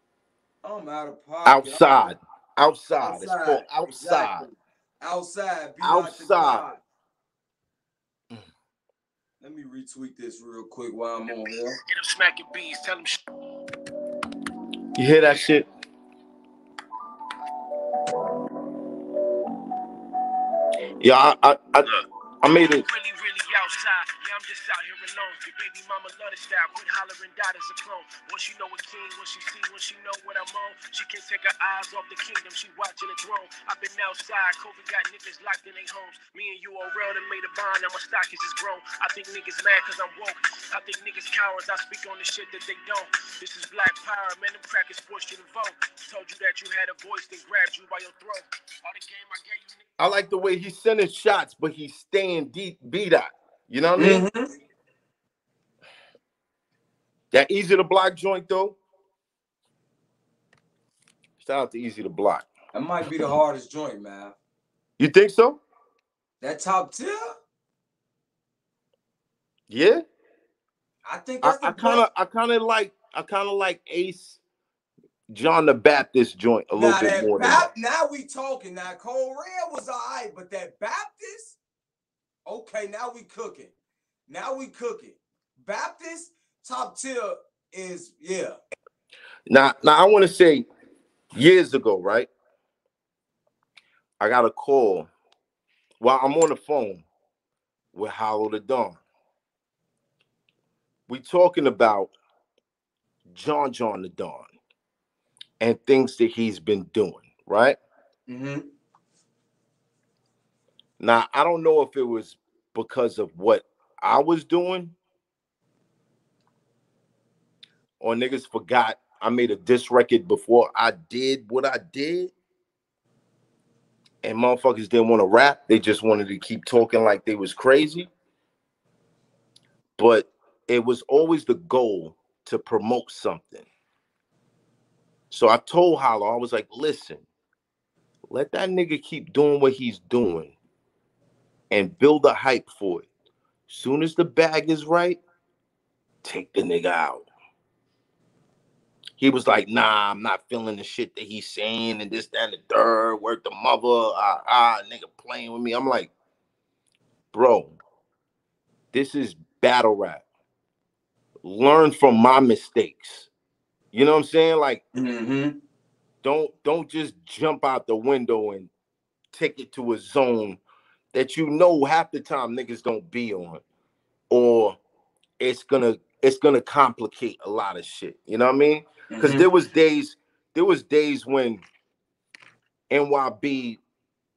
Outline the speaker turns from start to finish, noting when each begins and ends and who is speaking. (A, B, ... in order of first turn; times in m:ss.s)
0:00.6-0:02.1 A
0:01.4-0:04.4 B
0:03.0-0:06.8 A
0:05.8-0:06.6 B
0:09.4-0:11.8 A
0:11.3-0:13.2 C
0:14.9-0:15.7 B
0:21.0-0:22.8 B
0:22.5-0:49.8 C
0:50.0-0:54.2 B
0:54.0-0:54.5 A
0:57.3-0:58.8 B
1:01.4-1:02.5 B
1:02.7-1:04.3 A
1:05.0-1:05.6 B
1:06.4-1:07.3 A
1:09.7-1:10.0 B
1:11.0-1:12.0 A
1:11.4-1:14.4 B
1:15.3-1:17.7 B
1:16.8-1:21.6 A
1:22.4-1:23.7 A
1:24.3-1:28.6 A
1:29.5-1:30.6 B
1:31.4-1:32.3 B
1:34.2-1:35.1 B
1:36.0-1:37.0 B
1:37.9-1:39.0 B
1:41.1-1:42.1 B
1:43.3-1:44.5 B
1:45.6-1:47.8 B
1:48.3-1:48.6 A
1:51.0-1:54.9 B
1:58.0-2:02.3 B
2:04.2-2:08.1 B
2:10.0-2:13.7 B
2:15.3-2:17.2 B
2:18.3-2:20.5 B
2:21.7-2:23.1 B
2:23.7-2:25.2 B
2:26.2-2:27.2 B
2:29.2-2:36.1 B
2:37.3-2:37.8 B
2:38.9-2:40.2 B
2:41.4-2:43.3 B
2:43.9-2:44.8 B
2:44.9-2:45.6 A
2:46.2-2:48.7 B
2:49.3-2:50.6 B
2:51.1-2:53.6 B
2:54.3-2:54.8 B
2:55.4-3:01.6 B
2:59.1-2:59.4 A
3:02.9-3:03.8 B